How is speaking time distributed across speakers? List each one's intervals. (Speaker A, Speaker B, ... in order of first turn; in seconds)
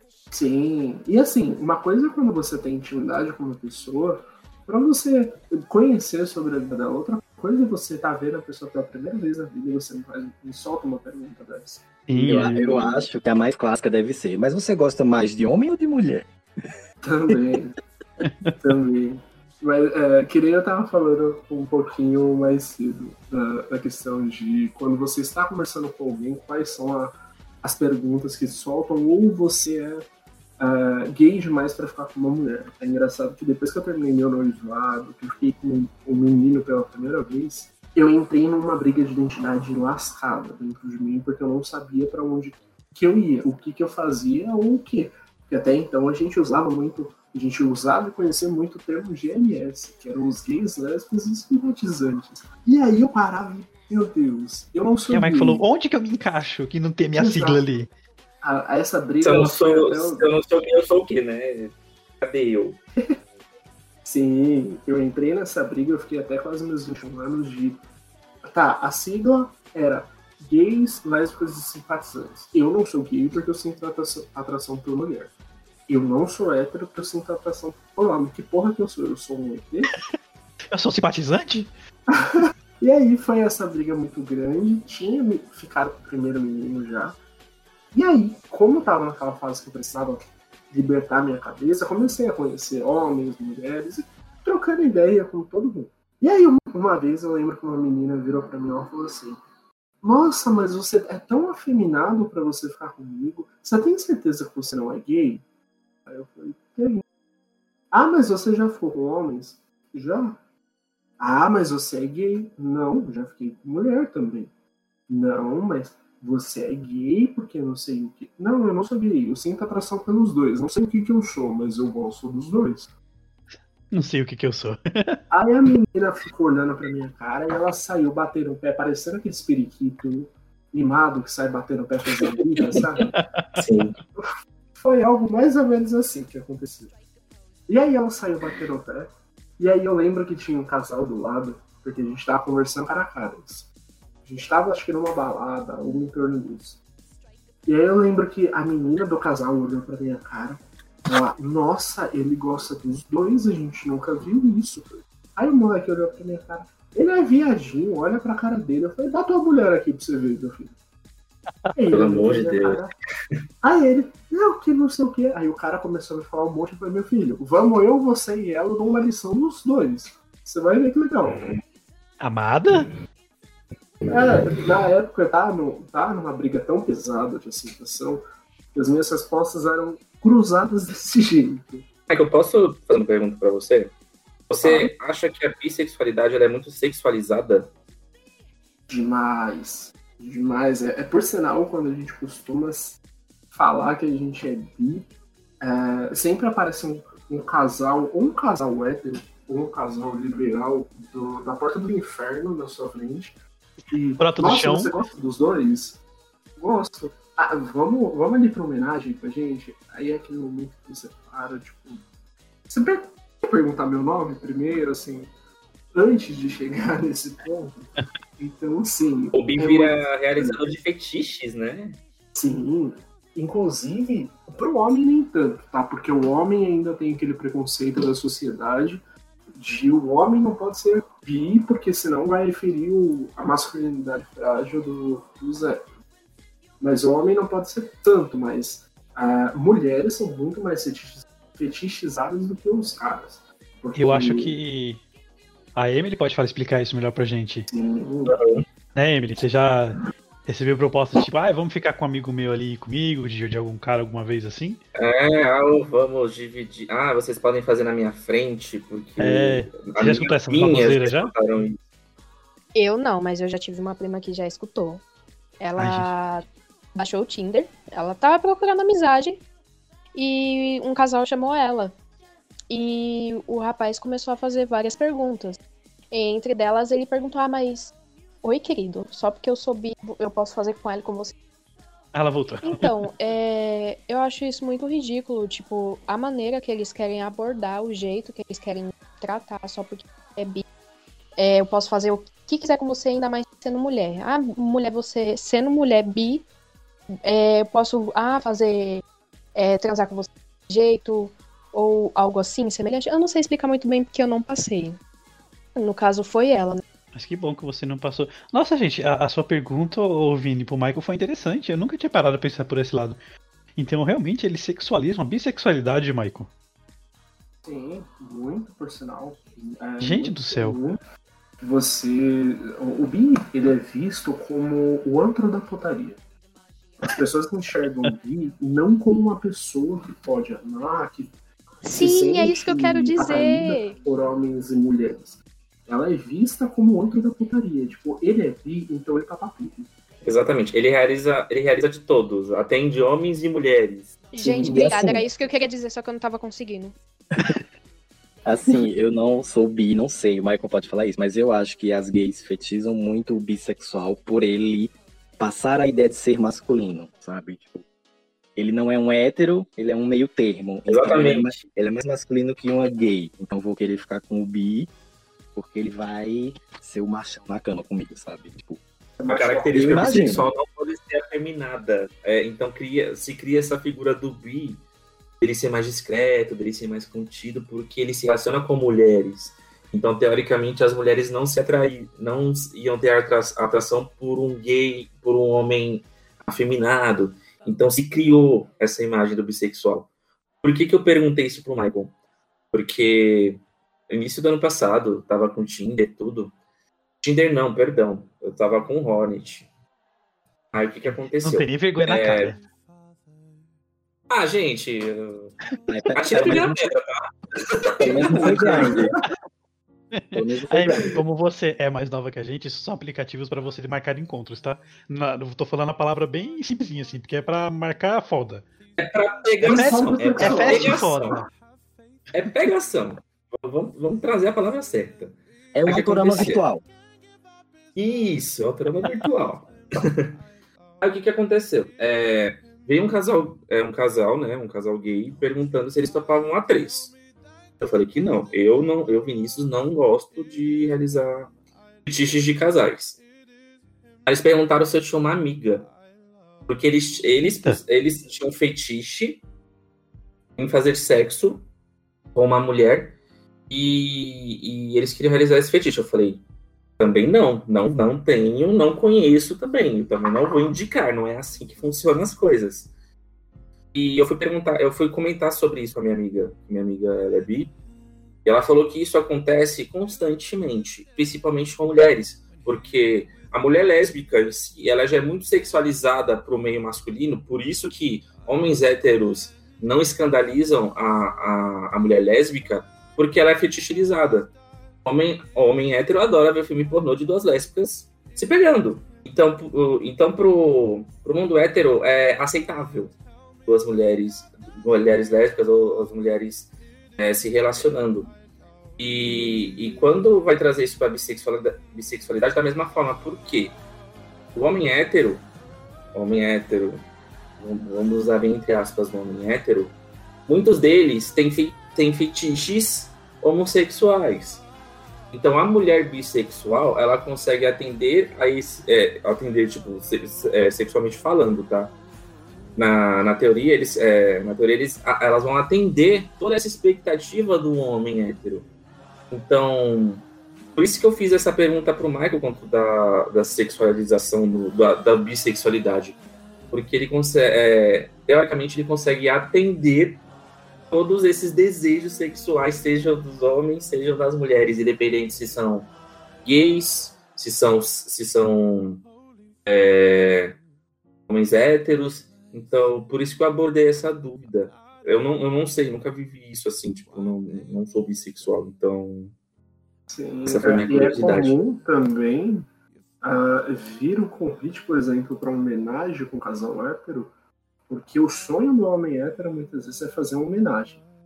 Speaker A: 0.3-11.8, 17.0-17.8, 18.6-30.0, 30.6-55.6, 57.2-57.6, 58.4-60.3, 64.0-67.8, 68.4-75.3, 75.9-79.9, 82.1-87.2, 87.9-99.4, 100.0-105.4, 106.1-107.0, 107.9-110.4, 111.2-114.5, 115.1-122.9, 125.3-133.1, 134.2-136.9, 137.7-143.7, 144.2-146.8, 147.7-160.8, 161.8-162.9, 163.6-171.5, 174.1-178.2, 178.7-181.8, 184.6-184.9, 188.9-193.0, 193.5-195.1, 195.6-203.3, 203.9-206.0, 206.6-212.0, 212.7-215.3, 215.9-217.9, 218.4-220.6, 222.3-229.0, 229.5-235.8, 236.8-244.5, 247.7-248.3, 317.6-321.0, 321.6-326.2, 327.0-331.3, 332.0-339.9, 369.2-370.3, 408.3-409.1, 419.6-421.1, 560.1-562.7, 563.2-567.3, 567.9-571.0
Speaker B: 12.1-12.8, 18.2-18.6, 55.1-57.9, 80.7-81.7, 123.9-125.2, 133.1-133.6, 172.2-172.9, 204.2-204.9, 243.9-245.0, 245.8-247.7, 248.9-254.8, 259.2-261.3, 265.8-266.1, 282.1-282.9, 307.1-313.2, 313.8-316.5, 320.0-320.8, 401.1-402.6, 410.1-418.6, 419.7-421.4
Speaker C: 12.1-16.3, 344.4-345.2, 348.4-357.8, 358.6-364.9, 365.5-368.8, 369.7-370.4, 405.9-406.8, 408.0-409.1, 410.3-411.1, 425.7-426.8
Speaker D: 59.2-62.8, 133.6-133.9, 161.9-162.8, 182.1-183.9, 184.5-187.7, 219.3-222.0, 248.3-248.6, 255.0-261.8, 340.2-344.1, 360.9-361.6, 369.3-374.8, 375.4-390.1, 390.6-392.1, 392.7-396.5, 397.2-399.7, 400.7-402.6, 404.3-405.5, 406.1-407.1, 407.7-409.1, 419.0-421.4, 422.3-425.3, 425.9-426.6, 427.9-430.3, 431.0-437.1, 437.8-441.5, 442.1-443.2, 444.2-445.9, 446.7-449.4, 450.6-451.6, 452.3-453.2, 453.7-456.4, 457.0-462.9, 463.9-467.7, 468.4-484.5, 485.0-493.1, 493.6-498.3, 499.0-503.8, 504.5-505.4, 506.1-507.0, 507.6-509.9, 510.5-514.6, 515.3-521.9, 522.8-528.7, 529.3-530.2, 530.7-536.2, 536.7-540.2, 540.9-545.9, 546.4-549.0, 549.7-550.6, 551.3-559.3, 560.5-561.5
Speaker E: 262.7-265.0, 265.6-269.4, 270.1-271.9, 272.7-275.6, 276.1-281.3, 282.6-290.6, 291.4-296.4, 297.2-299.0, 299.5-305.0, 305.8-306.8, 331.8-334.0, 344.3-346.9